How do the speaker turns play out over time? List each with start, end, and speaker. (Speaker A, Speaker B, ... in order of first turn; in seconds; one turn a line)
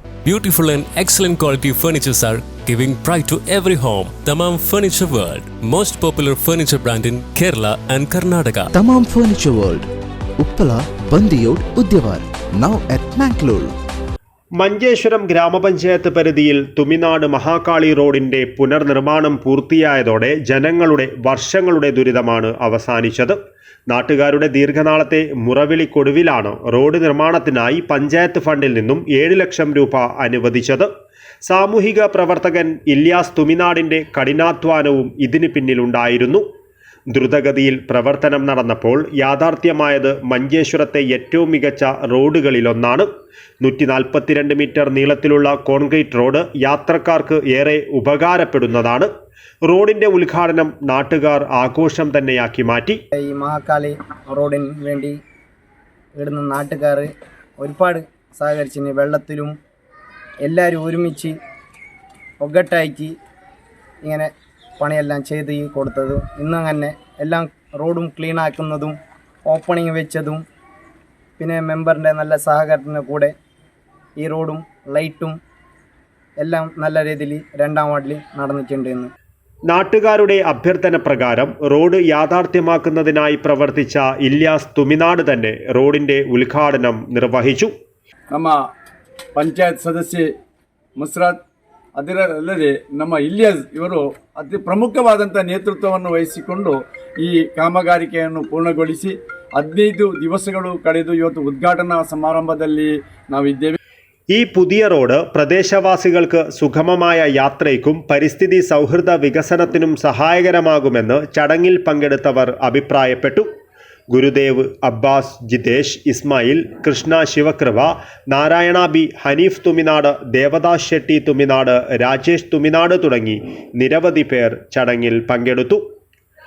Speaker A: 0.2-8.7
Speaker B: 8.8-9.9
Speaker B: 10.4-13.7
Speaker C: 14.6-23.4
Speaker C: 23.9-30.9
Speaker C: 31.5-36.4
Speaker C: 37.1-43.1
Speaker C: 43.6-49.1
Speaker C: 49.7-53.0
Speaker D: 53.1-55.2
Speaker D: 56.2-59.5
Speaker D: 60.4-61.4
Speaker D: 62.4-63.1
Speaker D: 64.0-69.0
Speaker D: 69.5-70.4
Speaker D: 71.4-73.3
Speaker D: 74.2-75.4
Speaker D: 76.4-79.1
Speaker C: 79.7-87.7
Speaker E: 88.3-88.6
Speaker E: 89.3-90.3
Speaker E: 91.0-91.4
Speaker E: 92.0-103.8
Speaker C: 104.3-113.5
Speaker C: 114.1-125.8